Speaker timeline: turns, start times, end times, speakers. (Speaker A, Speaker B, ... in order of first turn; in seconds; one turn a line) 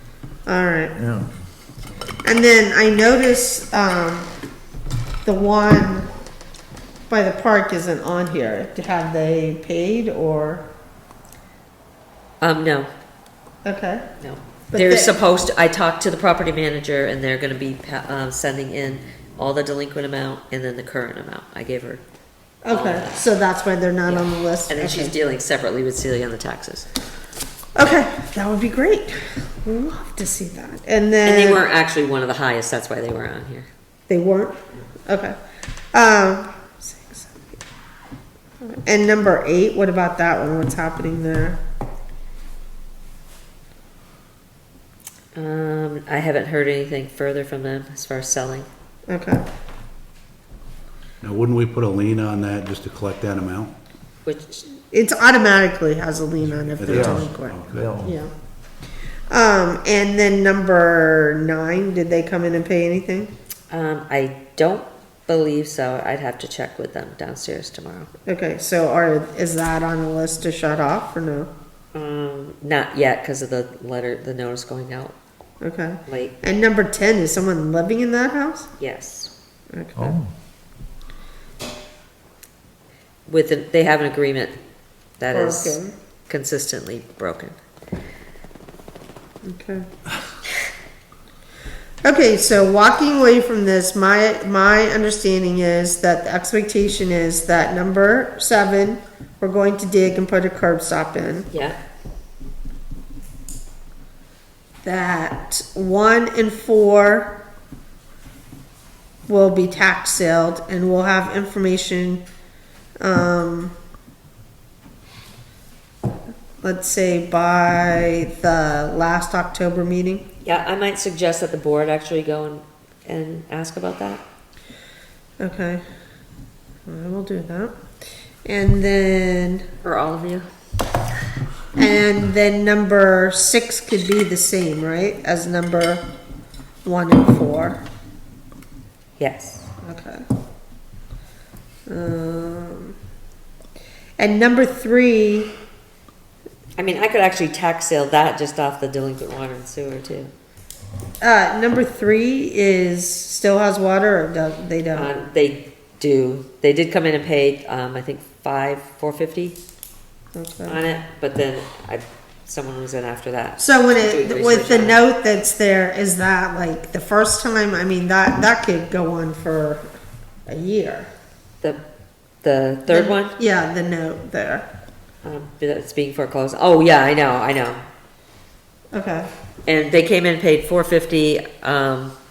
Speaker A: 0.5-0.9
Speaker B: 1.0-1.3
Speaker A: 2.2-4.3
Speaker A: 5.2-6.1
Speaker A: 7.1-10.7
Speaker C: 12.4-12.9
Speaker A: 13.6-14.0
Speaker C: 14.2-22.0
Speaker A: 14.7-15.1
Speaker A: 22.6-25.1
Speaker C: 22.7-23.1
Speaker C: 24.1-26.9
Speaker A: 27.8-31.6
Speaker C: 31.2-33.7
Speaker A: 34.1-35.4
Speaker A: 35.9-37.5
Speaker A: 38.6-41.6
Speaker C: 45.3-48.7
Speaker A: 49.1-49.4
Speaker D: 51.2-53.7
Speaker C: 54.2-54.7
Speaker A: 54.9-58.3
Speaker D: 56.6-58.0
Speaker B: 56.9-58.1
Speaker A: 59.3-63.3
Speaker C: 63.7-68.1
Speaker A: 68.2-71.5
Speaker C: 71.9-75.1
Speaker A: 75.6-78.7
Speaker C: 76.1-76.3
Speaker C: 78.8-79.3
Speaker A: 79.7-80.2
Speaker B: 80.0-80.3
Speaker C: 83.3-84.5
Speaker C: 85.2-87.5
Speaker A: 85.3-85.9
Speaker A: 89.4-89.8
Speaker A: 92.0-101.5
Speaker C: 101.5-101.8
Speaker A: 104.8-107.3
Speaker A: 109.2-112.2
Speaker A: 113.0-113.7
Speaker A: 116.6-120.2
Speaker C: 120.4-124.2
Speaker A: 125.4-125.8
Speaker A: 126.9-127.7
Speaker A: 128.4-129.6
Speaker C: 129.8-130.5
Speaker A: 131.8-136.0
Speaker A: 136.8-137.8
Speaker C: 139.2-139.7
Speaker A: 139.8-140.2
Speaker A: 141.9-142.9
Speaker A: 144.2-145.5
Speaker C: 146.8-150.3
Speaker A: 151.2-155.1
Speaker C: 154.9-159.6
Speaker A: 160.3-160.8
Speaker C: 160.7-165.0
Speaker A: 163.6-169.8
Speaker A: 170.5-171.1
Speaker C: 172.4-173.3
Speaker A: 172.9-174.7
Speaker C: 175.2-177.8
Speaker A: 178.9-179.3
Speaker C: 179.7-182.1